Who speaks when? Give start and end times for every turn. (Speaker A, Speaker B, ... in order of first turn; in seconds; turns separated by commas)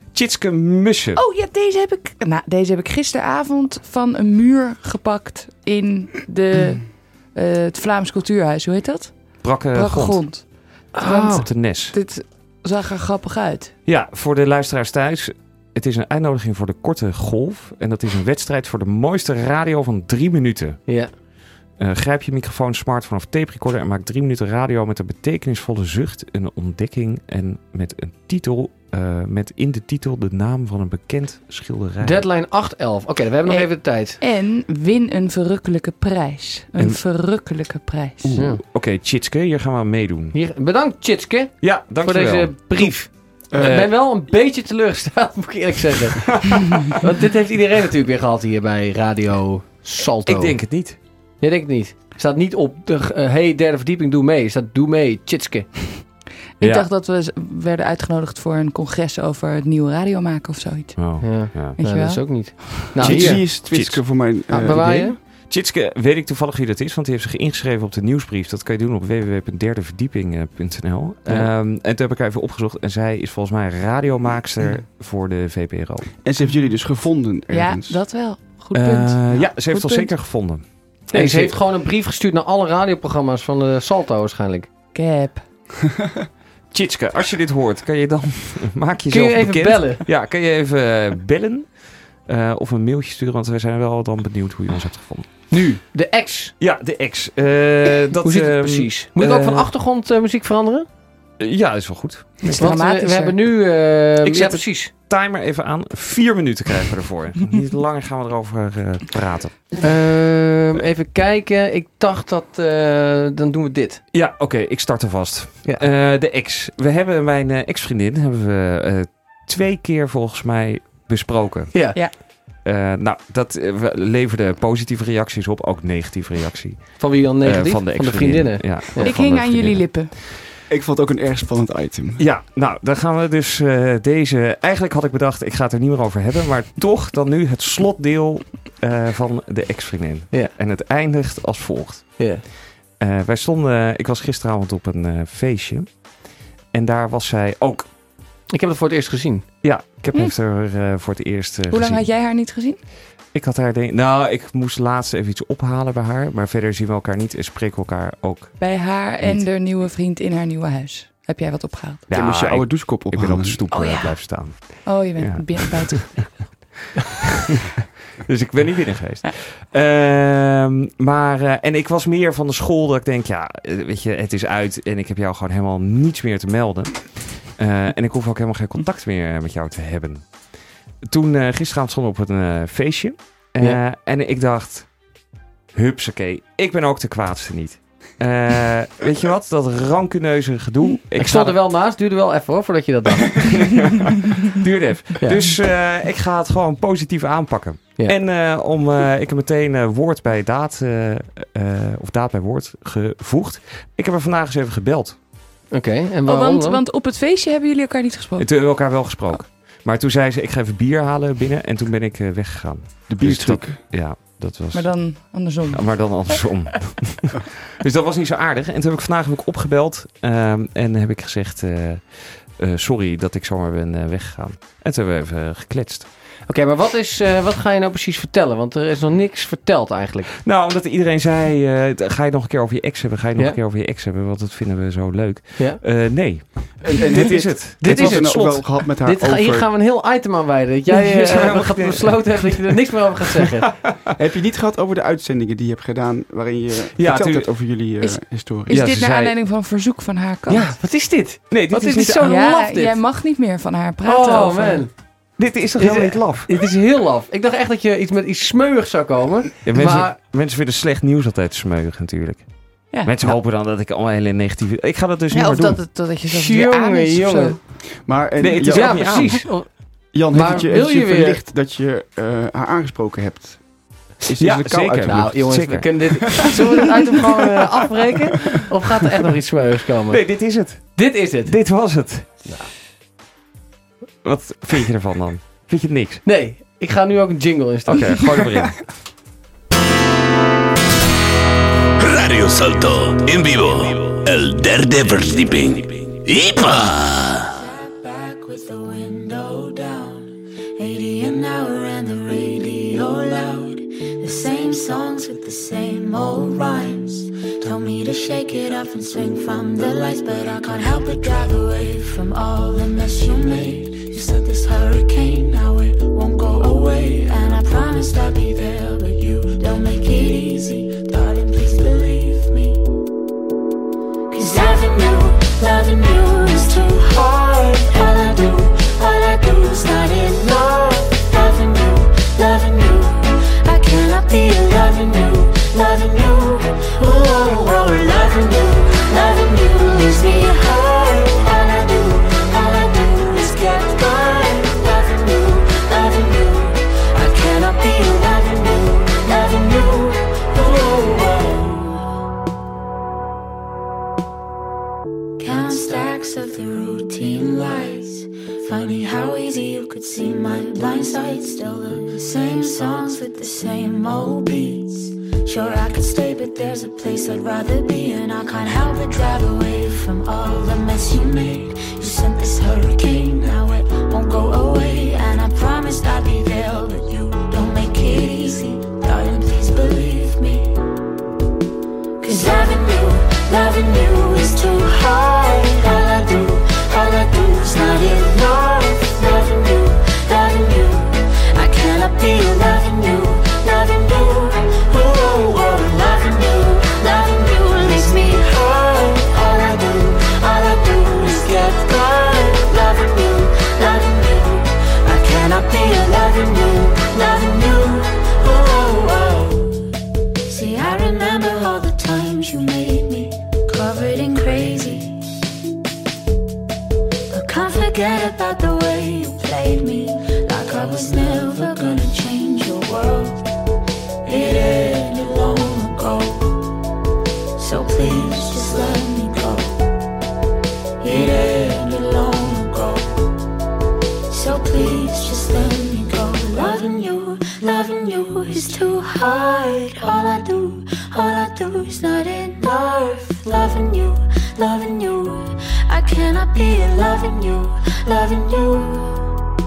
Speaker A: 0.1-1.2, Speaker B: 1.1-13.7, Speaker A: 9.4-10.3, Speaker C: 10.9-11.5, Speaker A: 11.1-11.9, Speaker A: 13.8-20.8, Speaker C: 20.9-21.1, Speaker A: 21.8-32.2, Speaker C: 32.0-34.2, Speaker B: 33.5-38.4, Speaker D: 38.2-38.5, Speaker A: 38.3-40.4, Speaker C: 40.3-50.6, Speaker A: 41.6-43.0, Speaker D: 43.5-43.9, Speaker A: 43.6-44.1, Speaker A: 50.2-51.0, Speaker C: 51.4-56.0, Speaker A: 56.6-56.9, Speaker B: 56.6-62.9, Speaker A: 61.0-61.8, Speaker C: 61.2-63.6, Speaker A: 62.8-64.4, Speaker D: 63.0-65.2, Speaker C: 64.5-65.2, Speaker A: 65.3-76.1, Speaker D: 76.2-78.0, Speaker B: 77.5-80.1, Speaker A: 78.7-81.6, Speaker C: 81.1-84.7, Speaker B: 84.9-85.4, Speaker A: 86.7-95.3, Speaker C: 89.1-90.0, Speaker C: 95.5-96.5, Speaker A: 96.6-99.7, Speaker C: 98.2-100.9, Speaker A: 101.4-102.7, Speaker C: 102.4-104.9, Speaker B: 102.5-103.3, Speaker A: 104.2-109.8, Speaker C: 109.8-114.0, Speaker A: 114.1-130.1, Speaker C: 121.7-122.0, Speaker C: 127.0-129.2, Speaker B: 129.0-130.1, Speaker D: 130.7-132.2, Speaker A: 132.2-142.3, Speaker C: 142.2-142.5, Speaker A: 143.0-145.9, Speaker A: 146.7-147.9, Speaker C: 148.5-149.5, Speaker A: 149.6-152.1, Speaker B: 151.7-152.8, Speaker A: 153.3-159.4, Speaker B: 158.6-162.1, Speaker A: 162.1-167.6, Speaker D: 162.1-163.6, Speaker B: 163.7-166.4, Speaker A: 168.2-180.3, Speaker A: 181.0-184.9, Speaker A: 185.7-191.6, Speaker C: 191.2-193.6, Speaker A: 193.3-205.2, Speaker C: 195.2-195.5, Speaker C: 205.7-206.8, Speaker B: 206.2-208.5, Speaker A: 208.4-226.1, Speaker D: 213.1-213.8, Speaker B: 214.7-216.4, Speaker C: 226.4-230.3, Speaker A: 230.3-238.9, Speaker C: 235.6-235.8, Speaker D: 236.8-239.7, Speaker C: 237.8-243.7, Speaker A: 240.9-244.1, Speaker D: 244.2-248.8, Speaker A: 246.9-247.8, Speaker B: 248.0-250.7, Speaker A: 248.7-249.4, Speaker C: 250.5-253.0, Speaker A: 251.5-252.3, Speaker B: 252.2-254.8, Speaker C: 254.0-255.0, Speaker A: 255.3-256.5, Speaker C: 255.8-260.2, Speaker A: 259.6-265.9, Speaker B: 265.3-267.6, Speaker C: 266.3-267.6, Speaker D: 267.9-269.4, Speaker A: 268.4-269.6, Speaker C: 268.6-271.4, Speaker D: 270.1-275.7, Speaker A: 274.4-277.1, Speaker C: 275.1-281.6, Speaker A: 280.1-282.4, Speaker A: 284.2-286.2, Speaker C: 286.2-288.6, Speaker A: 287.8-288.9, Speaker E: 292.0-297.4, Speaker F: 297.4-322.9, Speaker F: 324.3-352.0, Speaker F: 355.4-380.8, Speaker F: 382.2-409.9, Speaker F: 410.4-415.3, Speaker F: 417.3-423.5, Speaker F: 424.2-426.6, Speaker F: 427.6-429.9, Speaker F: 431.0-433.2, Speaker F: 434.3-449.2